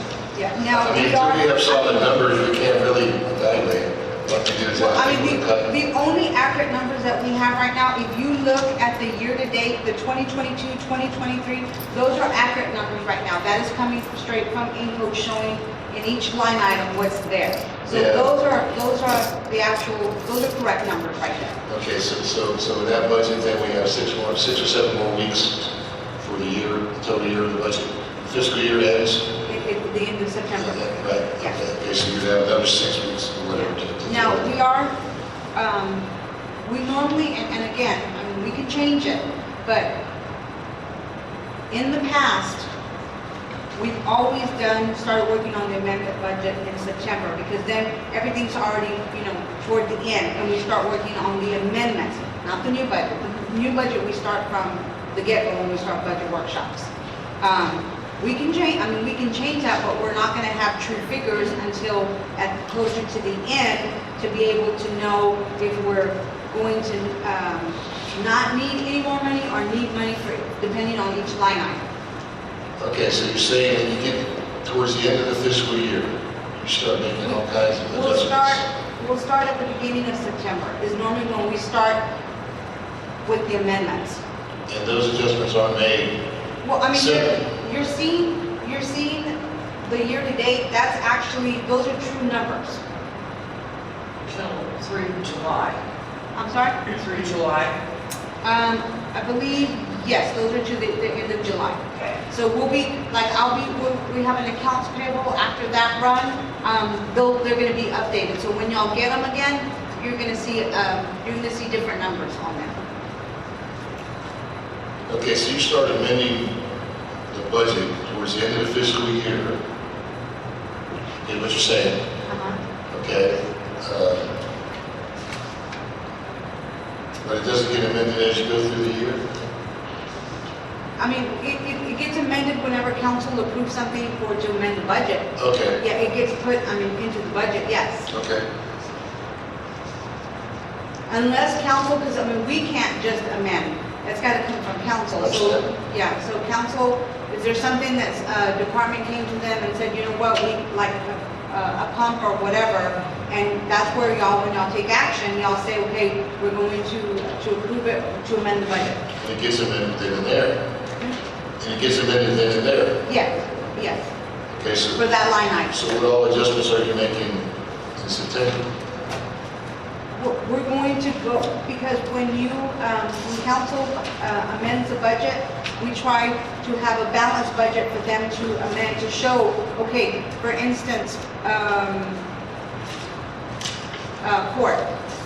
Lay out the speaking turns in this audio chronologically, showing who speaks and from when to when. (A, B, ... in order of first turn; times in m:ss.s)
0:00.4-0:02.1 A
0:00.6-0:05.7 B
0:04.8-0:21.6 A
0:17.9-0:18.3 B
0:21.7-0:29.3 B
0:29.5-0:31.5 A
0:30.6-0:34.5 B
0:33.5-0:34.9 A
0:35.6-0:36.1 A
0:36.6-0:40.0 A
0:41.7-0:42.7 A
0:43.8-0:56.9 A
0:57.4-1:11.8 A
1:12.8-1:18.6 B
1:17.9-1:22.0 A
1:23.2-1:24.2 A
1:24.7-1:26.2 B
1:26.6-1:32.8 A
1:26.9-1:27.4 B
1:34.3-1:35.8 C
1:36.4-1:36.8 A
1:36.8-1:37.8 C
1:38.4-1:52.8 A
1:55.1-1:56.6 B
1:57.3-1:59.6 B
2:01.2-2:02.0 B
2:02.3-2:02.6 A
2:02.9-2:04.3 B
2:07.2-2:09.3 B
2:11.0-2:18.1 A
2:15.4-2:15.8 B
2:18.1-2:18.4 B
2:21.1-2:39.0 A
2:25.2-2:25.7 B
2:39.2-2:40.6 B
2:41.6-2:43.0 B
2:43.1-2:44.1 A
2:44.6-2:45.0 B
2:45.0-2:45.8 A
2:45.7-2:48.7 B
2:50.2-3:02.2 A
3:04.2-3:04.9 A